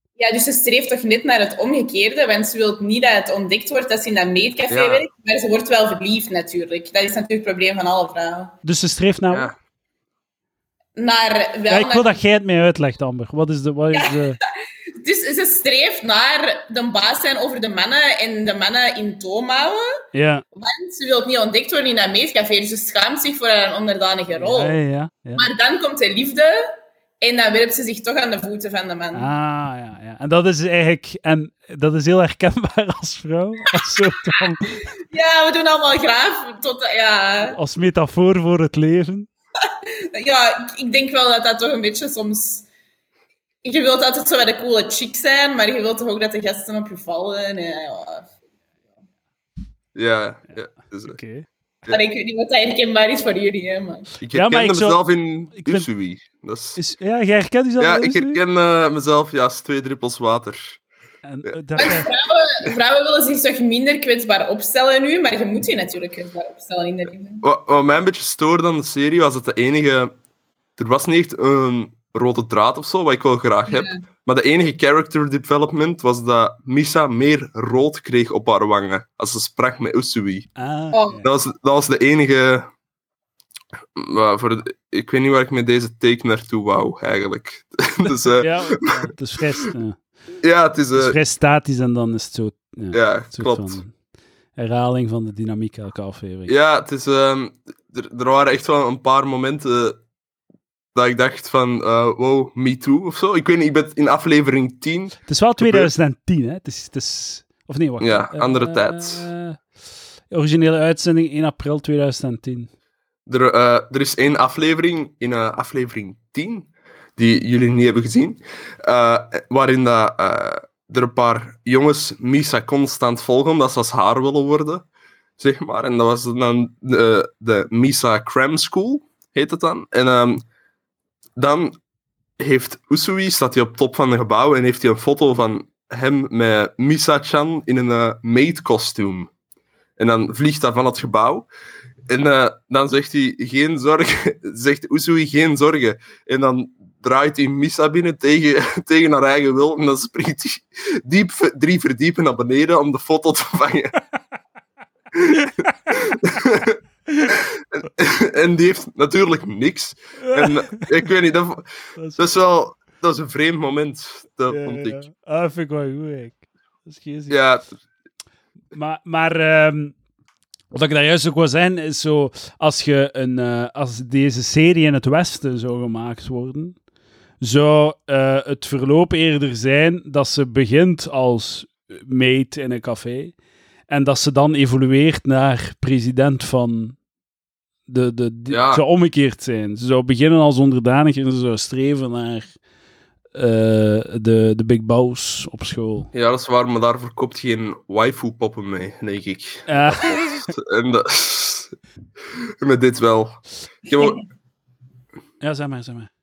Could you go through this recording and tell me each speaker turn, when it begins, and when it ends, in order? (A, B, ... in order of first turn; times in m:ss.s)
0:00.2-0:08.6 A
0:04.7-0:05.1 B
0:08.6-0:09.5 C
0:11.0-0:12.2 A
0:11.7-0:14.4 C
0:13.9-0:14.4 A
0:14.9-0:20.0 A
0:20.1-0:20.4 C
0:20.5-0:24.8 A
0:24.4-0:25.5 C
0:25.4-0:29.3 A
0:29.1-0:34.8 C
0:35.1-0:37.6 A
0:37.5-0:39.3 C
0:39.6-0:42.7 A
0:43.6-0:48.3 A
0:50.0-0:51.2 B
0:51.1-0:51.5 C
0:51.9-0:54.1 A
0:54.2-0:56.8 B
0:54.3-0:55.0 C
0:55.6-0:55.9 C
0:56.8-0:58.4 C
0:57.8-1:00.8 B
1:01.2-1:02.1 C
1:01.8-1:07.4 A
1:07.4-1:10.1 B
1:10.8-1:20.5 B
1:13.7-1:14.0 A
1:20.6-1:21.3 C
1:20.9-1:21.2 A
1:21.2-1:22.7 B
1:24.0-1:28.9 B
1:28.4-1:30.0 C
1:30.4-1:31.2 B
1:31.0-1:33.9 C
1:32.9-1:33.8 B
1:34.6-1:36.5 C
1:36.5-1:40.0 B
1:40.9-1:45.9 B
1:45.3-1:49.6 C
1:48.0-1:49.3 B
1:50.3-1:52.7 C
1:53.3-2:04.8 B
2:05.4-2:10.4 B
2:11.4-2:11.8 B
2:12.4-2:19.3 B
2:20.0-2:21.5 B
2:22.1-2:34.0 B
2:35.1-2:45.0 B
2:37.1-2:37.4 C
2:40.2-2:40.9 C
2:42.0-2:42.3 C
2:44.5-2:47.4 C
2:47.3-2:47.7 B
2:48.7-2:50.0 C
2:50.7-2:56.8 C
2:57.4-3:03.4 C
3:03.9-3:07.0 C
3:07.9-3:12.5 C
3:08.5-3:08.8 B
3:13.3-3:16.1 C
3:16.1-3:21.8 B
3:19.7-3:20.5 C
3:22.6-3:24.2 B
3:25.4-3:26.1 C